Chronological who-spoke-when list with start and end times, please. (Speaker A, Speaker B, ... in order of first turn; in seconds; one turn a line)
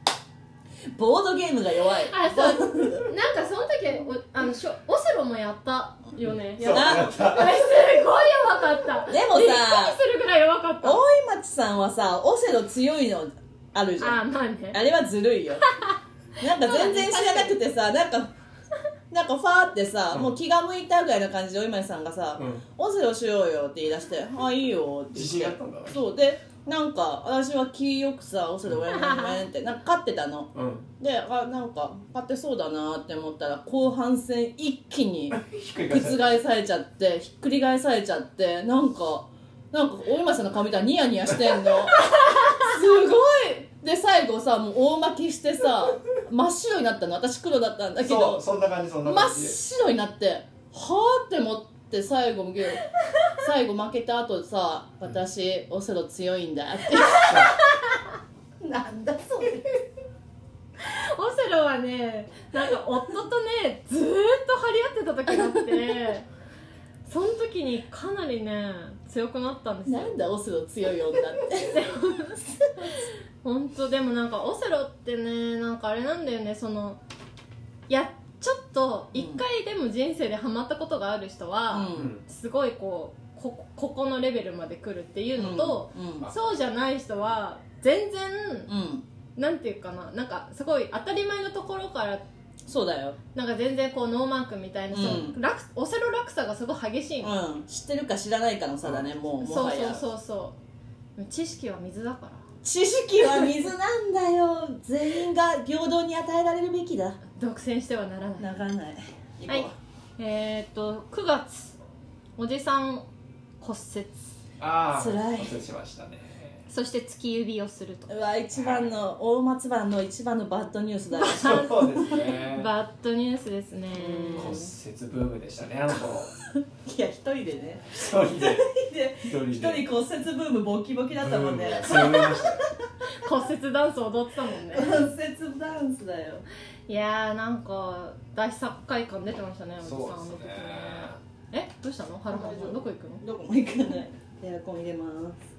Speaker A: 0.9-3.1
Speaker B: 2.0-11.0
Speaker C: 6.6-7.6
Speaker A: 6.6-7.2
Speaker A: 9.1-10.0
Speaker A: 10.8-14.2
Speaker B: 14.0-14.8
Speaker A: 14.7-15.6
Speaker B: 15.6-17.6
Speaker A: 16.4-18.3
Speaker A: 19.1-35.4
Speaker C: 20.1-20.4
Speaker C: 22.4-22.6
Speaker C: 25.1-26.0
Speaker B: 28.9-29.4
Speaker C: 30.5-30.9
Speaker C: 35.3-36.4
Speaker A: 35.9-42.0
Speaker B: 42.1-42.5
Speaker A: 42.6-48.4
Speaker C: 48.0-49.6
Speaker A: 49.0-52.8
Speaker A: 53.4-57.4
Speaker B: 57.2-58.0
Speaker C: 57.3-57.6
Speaker A: 58.6-59.8
Speaker B: 60.8-66.3
Speaker B: 67.1-70.2
Speaker A: 69.9-71.8
Speaker B: 71.6-77.0
Speaker B: 77.9-88.7
Speaker A: 79.2-79.4
Speaker A: 81.7-82.1
Speaker C: 81.9-82.2
Speaker A: 85.4-86.3
Speaker A: 88.7-89.1
Speaker B: 89.4-92.2
Speaker A: 92.7-93.2
Speaker B: 93.3-97.3
Speaker A: 94.9-95.4
Speaker A: 97.2-100.1
Speaker B: 99.4-100.6
Speaker B: 101.2-102.4
Speaker A: 102.6-107.2
Speaker B: 103.2-103.6
Speaker B: 107.3-108.6
Speaker A: 108.4-109.7
Speaker B: 109.5-111.8
Speaker B: 112.4-113.1
Speaker B: 113.6-114.3
Speaker C: 114.6-116.6
Speaker A: 115.0-115.5
Speaker B: 116.7-118.1
Speaker A: 118.1-121.6
Speaker C: 118.5-119.0
Speaker B: 121.2-124.7
Speaker C: 121.2-122.7
Speaker A: 123.9-124.6
Speaker C: 124.4-126.3
Speaker A: 126.8-132.7
Speaker C: 127.9-128.7
Speaker C: 129.2-129.8
Speaker C: 131.2-132.7
Speaker B: 131.9-132.3
Speaker B: 133.1-135.0
Speaker A: 134.7-136.5
Speaker B: 136.9-143.2
Speaker C: 139.8-141.2
Speaker A: 142.3-145.4